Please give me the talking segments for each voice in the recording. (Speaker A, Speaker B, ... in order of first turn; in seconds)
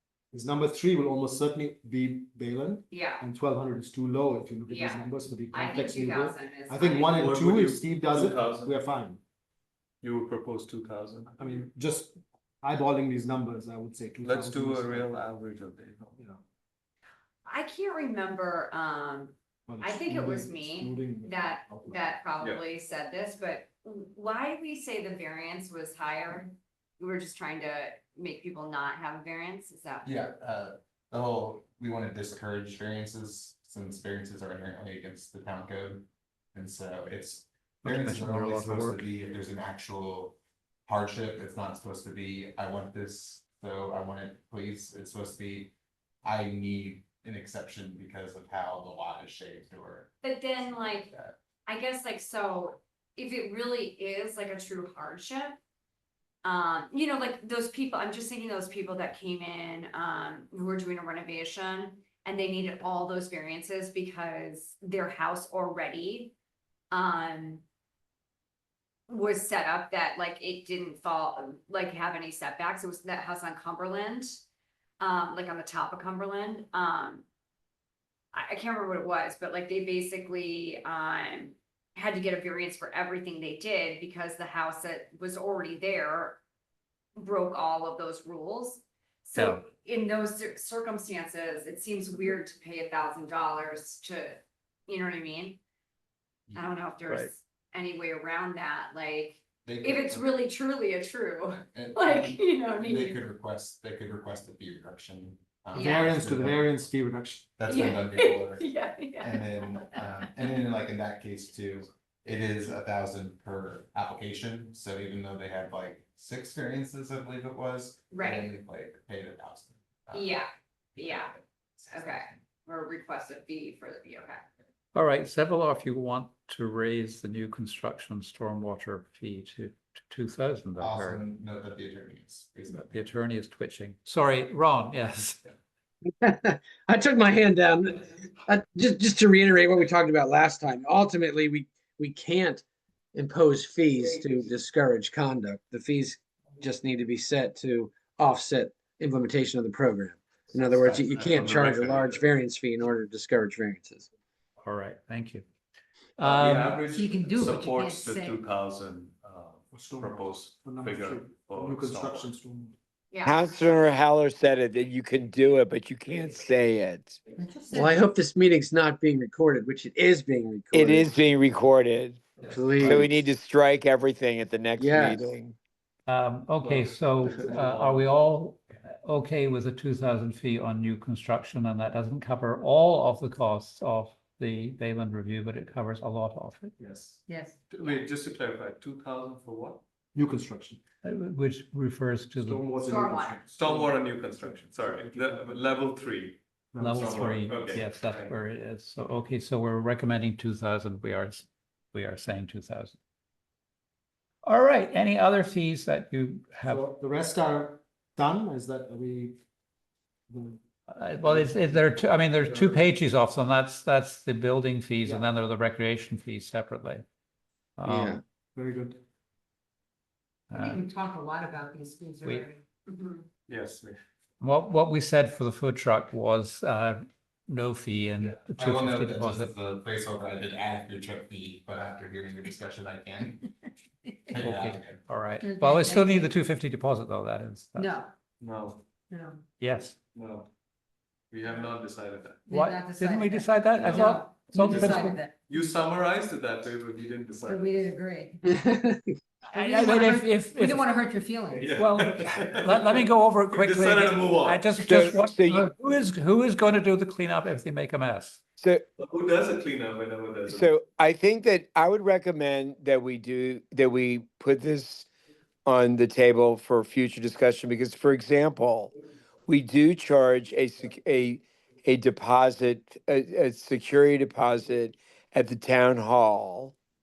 Speaker A: 0.3-9.2, 11.3-15.2, 19.7-22.1, 105.8-107.5, 159.7-162.7, 186.8-187.2, 190.1-190.8, 192.4-195.4, 196.7-197.5, 206.7-209.4, 210.3-210.6, 211.2-211.8, 212.4-212.8, 218.5-219.0
Speaker B: 2.9-3.2, 4.7-7.1, 17.4-30.1, 50.2-51.1, 51.6-55.6, 56.4-66.3, 66.9-67.6, 69.1-74.4, 75.0-77.2, 78.3-86.4, 87.2-95.6, 96.5-103.2, 105.7-106.2, 107.7-110.1, 118.1-118.5, 120.1-121.3, 121.9-124.4, 163.1-163.6, 192.8-193.4, 222.9-223.2
Speaker C: 7.0-8.8, 10.0-11.3, 14.2-16.1, 150.7-152.3, 156.2-162.3, 176.6-178.1, 187.7-189.8, 193.5-196.4, 196.9-198.3, 223.5-224.0, 238.4-238.8, 240.1-240.5, 241.3-242.5, 243.7-247.8, 251.6-254.7, 259.0-260.7
Speaker D: 30.0-40.4, 40.9-45.7, 46.2-51.3, 99.6-100.3, 101.7-106.8, 107.6-120.4, 121.0-122.3, 130.8-133.0, 228.6-233.5, 234.3-235.0
Speaker E: 37.8-39.1, 89.3-89.6, 124.9-131.2, 132.7-135.4, 154.6-155.4, 156.2-156.8, 176.1-186.7, 191.0-192.6, 196.8-202.9, 204.4-206.8, 210.9-217.0, 217.8-218.2, 220.5-220.8, 224.4-229.5, 234.4-238.0, 239.6-239.9, 242.5-245.2, 249.5-250.9, 251.7-258.4
Speaker F: 136.2-154.1, 167.7-171.2, 172.4-173.2, 174.8-175.3, 217.8-218.2, 248.5-249.1
Speaker G: 156.9-158.4, 167.4-168.1, 187.3-188.0, 220.5-222.6, 235.4-236.3, 237.8-238.1, 239.1-239.4, 242.4-245.3, 247.4-248.6, 249.5-251.8
Speaker H: 163.2-167.2, 170.7-172.2, 172.8-175.6, 254.7-255.7, 258.6-258.8, 260.5-265.1, 265.6-268.9, 269.5-276.7